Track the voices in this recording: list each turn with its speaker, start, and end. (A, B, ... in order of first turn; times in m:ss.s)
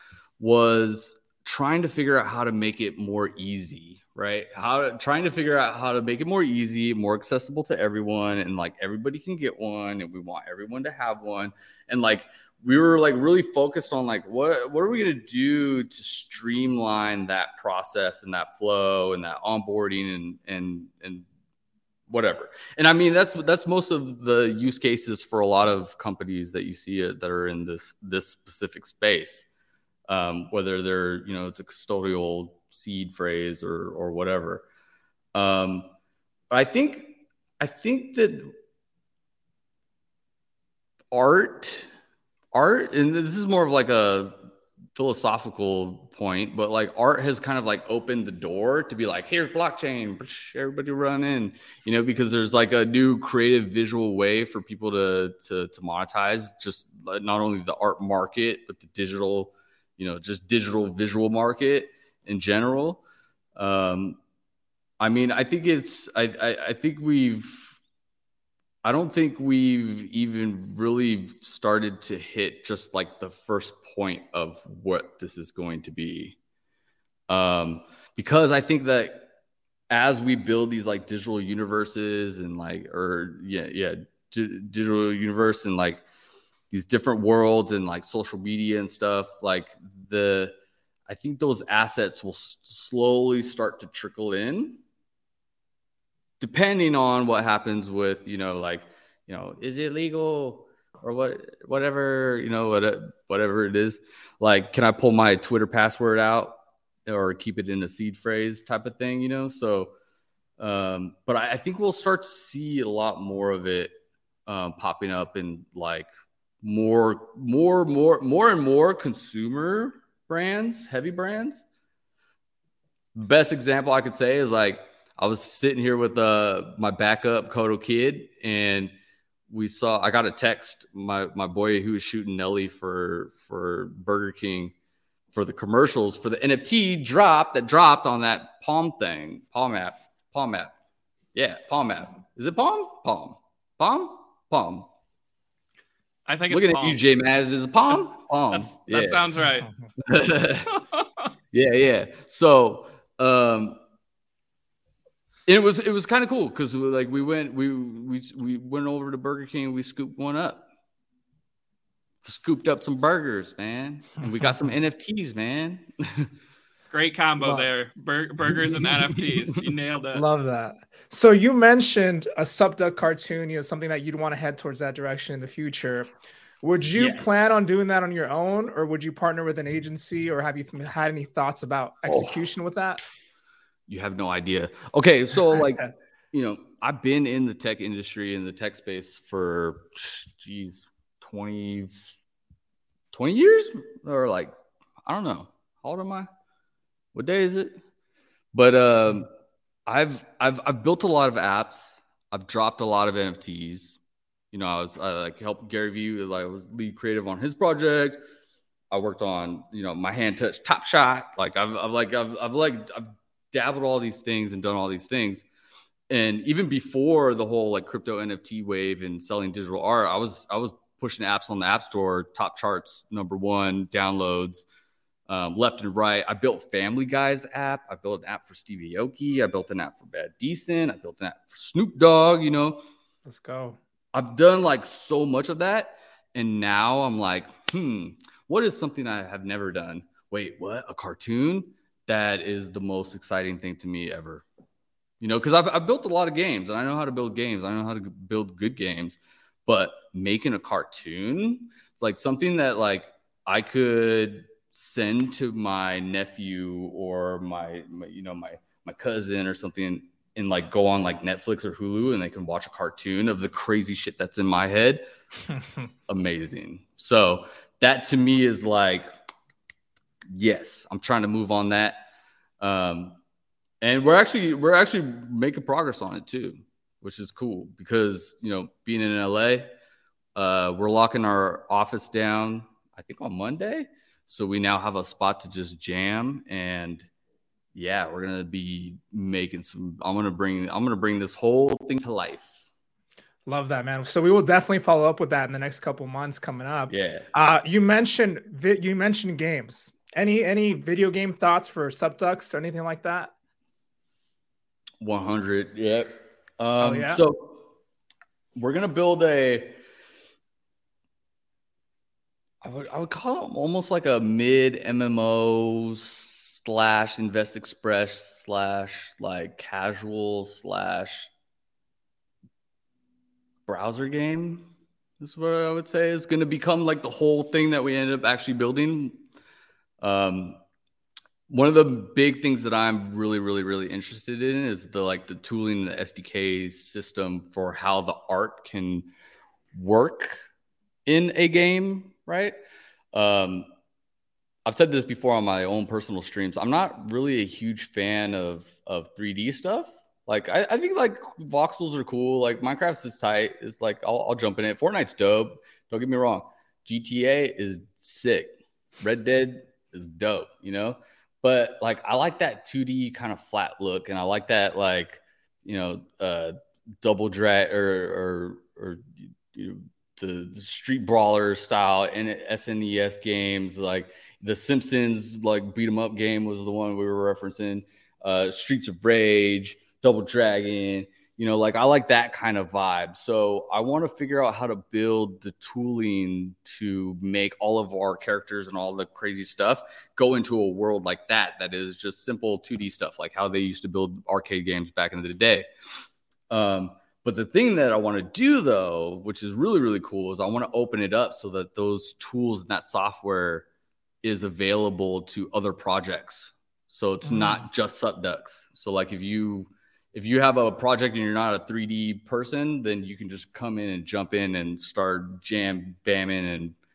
0:00.4-0:21.2 A
0:22.1-0:29.4 A
0:30.1-0:34.6 A
0:35.3-0:35.9 A
0:36.5-0:38.5 A
0:41.1-0:41.9 A
0:42.5-0:44.3 A
0:44.9-1:03.0 A
1:03.6-1:04.2 A
1:05.0-1:07.8 A
1:08.8-1:16.4 A
1:17.3-1:19.3 A
1:19.9-1:26.0 A
1:26.7-1:30.5 A
1:31.1-1:34.8 A
1:36.4-1:49.9 A
1:50.6-1:53.9 A
1:54.4-1:56.1 A
1:56.6-2:01.6 A
2:03.1-2:08.9 A
2:09.5-2:14.7 A
2:15.3-2:20.7 A
2:21.3-2:24.9 A
2:26.2-2:27.0 B
2:26.5-2:29.2 A
2:28.5-2:29.7 B
2:30.0-2:30.8 A
2:30.7-2:31.2 B
2:31.5-2:33.8 A
2:35.5-2:40.6 A
2:42.2-2:46.3 A
2:46.9-2:50.2 B
2:47.4-2:47.7 C
2:48.8-2:49.7 A
2:50.1-2:56.1 C
2:56.6-3:03.0 C
2:57.0-2:57.2 A
3:02.1-3:02.4 A
3:03.9-3:11.9 A
3:13.1-3:16.3 A
3:17.1-3:17.8 A
3:18.5-3:19.3 A
3:19.9-3:24.0 A
3:24.5-3:28.2 A
3:28.9-3:35.4 A
3:36.1-3:44.6 A
3:45.3-3:52.8 A
3:53.2-3:53.8 C
3:54.1-4:04.4 A
4:05.2-4:25.0 A
4:26.1-4:29.1 A
4:30.3-4:32.0 A
4:32.6-4:33.2 A
4:33.8-4:39.7 A
4:40.3-4:47.1 A
4:47.7-4:52.5 A
4:53.4-5:03.3 C
4:56.9-4:57.3 A
5:05.0-5:07.6 A
5:06.8-5:07.2 C
5:08.6-5:09.8 A
5:12.6-5:21.3 A
5:23.7-5:24.7 A
5:25.2-5:29.2 A
5:30.0-5:30.6 A
5:31.5-5:39.1 A
5:39.7-5:40.4 A
5:41.0-5:42.6 A
5:43.1-5:43.7 A
5:44.6-6:35.7 A
6:36.5-6:43.7 A
6:44.2-6:56.7 A
6:47.2-6:47.6 C